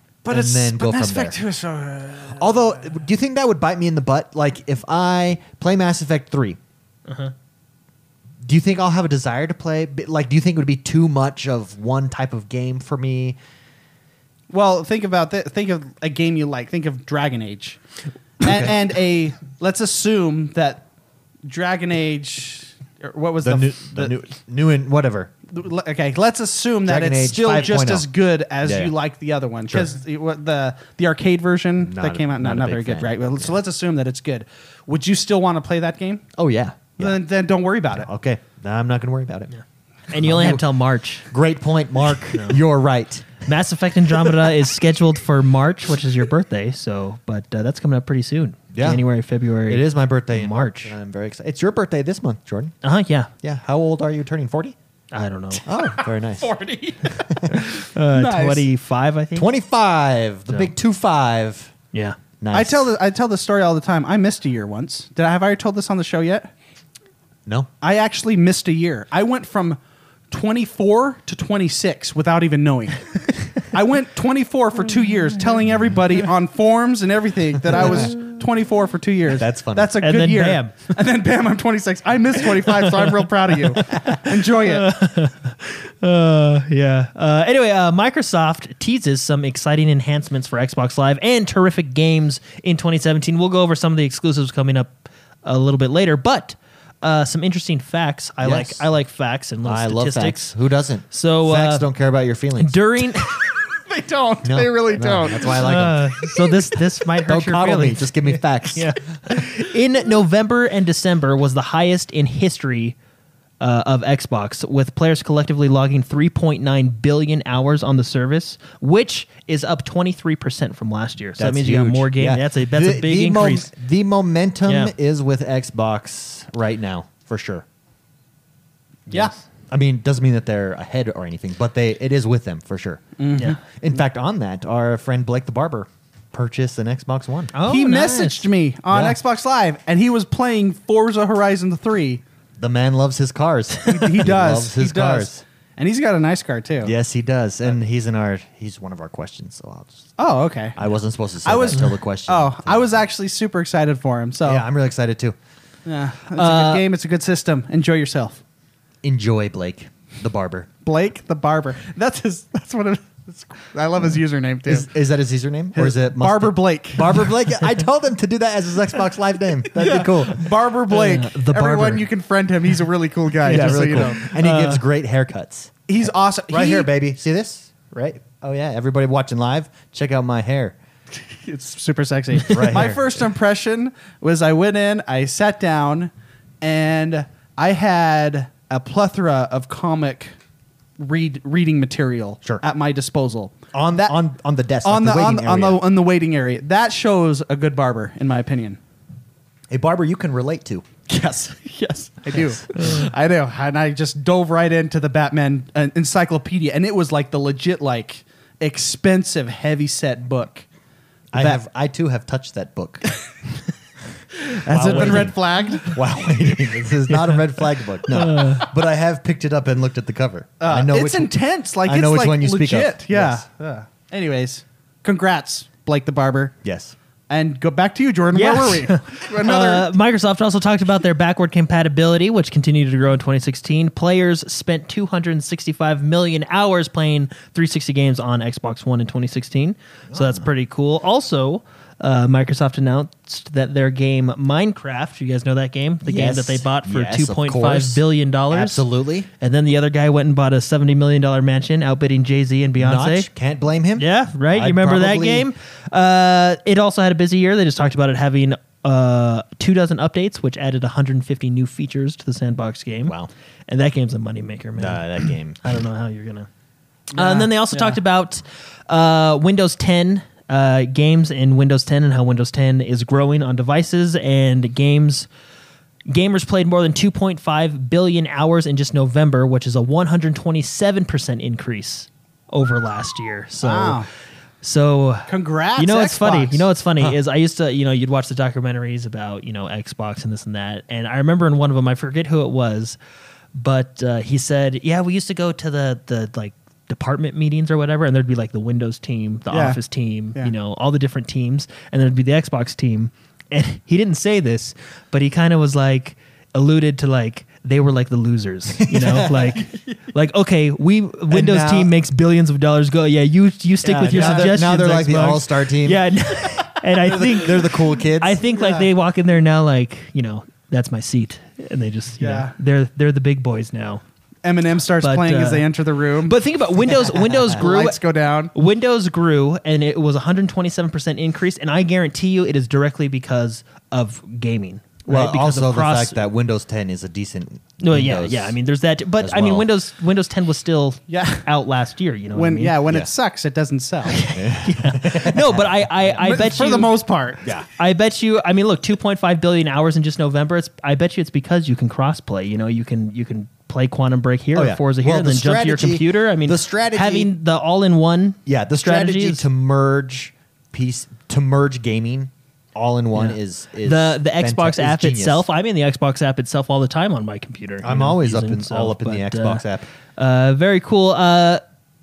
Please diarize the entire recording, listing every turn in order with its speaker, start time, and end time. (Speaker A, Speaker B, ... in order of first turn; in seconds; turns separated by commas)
Speaker A: 0.2-2.7, Speaker B: 0.3-1.4, Speaker B: 2.4-6.6, Speaker C: 7.1-7.3, Speaker B: 8.4-13.4, Speaker A: 14.5-17.8, Speaker A: 18.4-20.9, Speaker B: 18.4-18.7, Speaker A: 21.4-24.1, Speaker B: 23.4-25.3, Speaker A: 25.5-36.2, Speaker B: 26.9-28.1, Speaker B: 28.6-28.9, Speaker B: 31.8-33.6, Speaker B: 36.4-37.2, Speaker A: 37.0-38.1, Speaker B: 38.0-39.5, Speaker C: 39.5-41.3, Speaker B: 40.1-40.6, Speaker B: 41.3-43.4, Speaker C: 42.3-42.6, Speaker C: 43.4-50.9, Speaker B: 48.7-49.0, Speaker B: 49.7-52.8, Speaker C: 52.8-53.3, Speaker B: 53.4-54.8, Speaker C: 55.1-55.6, Speaker B: 55.7-56.5, Speaker A: 56.4-57.2, Speaker B: 57.2-57.6, Speaker C: 57.5-59.5, Speaker A: 58.1-58.7, Speaker B: 59.4-61.7, Speaker C: 61.9-62.2, Speaker B: 62.4-62.9, Speaker A: 62.5-66.5, Speaker A: 67.8-69.8, Speaker A: 70.3-84.9, Speaker B: 77.7-78.1, Speaker B: 79.3-80.0, Speaker C: 80.0-80.9, Speaker C: 82.7-83.1, Speaker C: 83.7-100.5, Speaker B: 98.4-98.9, Speaker B: 99.6-102.8, Speaker C: 101.1-101.9, Speaker C: 102.6-103.4, Speaker A: 103.4-105.7, Speaker B: 104.4-106.1, Speaker C: 105.5-113.0, Speaker B: 107.3-109.4, Speaker C: 113.6-123.7, Speaker B: 121.4-127.7, Speaker C: 124.7-124.9, Speaker B: 129.7-137.5, Speaker A: 133.2-133.6, Speaker C: 137.5-138.5, Speaker A: 137.7-142.2, Speaker B: 138.9-139.2, Speaker B: 142.6-145.4, Speaker A: 143.9-146.9, Speaker B: 146.8-150.1, Speaker A: 150.2-150.8, Speaker B: 150.8-153.1, Speaker A: 151.4-154.6, Speaker B: 154.4-155.4, Speaker A: 155.8-158.4, Speaker C: 156.4-156.8, Speaker B: 159.0-160.7, Speaker A: 160.8-164.9, Speaker B: 164.7-170.5, Speaker A: 165.8-167.3, Speaker A: 169.7-174.3, Speaker C: 170.9-172.1, Speaker C: 173.5-174.8, Speaker B: 173.5-175.8, Speaker A: 175.9-176.9, Speaker B: 176.5-180.8, Speaker A: 181.3-190.3, Speaker B: 182.5-183.0, Speaker A: 191.0-194.1, Speaker B: 193.7-195.8, Speaker A: 194.8-198.8, Speaker B: 199.7-200.9, Speaker A: 201.1-210.7, Speaker C: 202.8-203.1, Speaker B: 211.3-213.1, Speaker A: 211.3-211.6, Speaker A: 214.4-216.0, Speaker B: 214.7-221.3, Speaker C: 215.0-215.2, Speaker C: 217.1-217.4, Speaker C: 218.1-218.7, Speaker A: 220.6-226.6, Speaker B: 221.8-223.4, Speaker B: 226.6-226.9, Speaker A: 227.3-229.9, Speaker C: 228.3-248.8, Speaker B: 240.1-240.4, Speaker B: 246.0-249.3, Speaker C: 249.4-253.3, Speaker B: 252.8-255.5, Speaker C: 254.0-263.2, Speaker C: 263.7-266.5, Speaker B: 264.8-265.6, Speaker A: 267.1-268.0, Speaker C: 267.1-275.3, Speaker C: 276.1-284.0, Speaker A: 283.6-284.1, Speaker C: 284.6-293.0, Speaker A: 285.3-286.7, Speaker C: 293.5-324.0, Speaker A: 299.5-299.8, Speaker B: 308.8-309.7, Speaker B: 311.3-311.9, Speaker B: 313.9-318.4, Speaker A: 314.0-314.5, Speaker A: 318.5-318.9, Speaker A: 322.2-322.6, Speaker A: 324.4-328.5, Speaker C: 325.0-325.7, Speaker C: 326.2-328.0, Speaker C: 328.5-336.2, Speaker B: 335.1-338.6, Speaker C: 337.8-342.8, Speaker B: 339.2-339.7, Speaker A: 341.1-341.5, Speaker A: 342.3-344.2, Speaker C: 344.1-346.9, Speaker B: 344.3-345.9, Speaker A: 346.2-347.5, Speaker C: 347.8-359.5, Speaker B: 354.6-357.3, Speaker B: 358.5-365.4, Speaker C: 363.1-369.6, Speaker B: 367.8-369.9, Speaker C: 370.2-371.6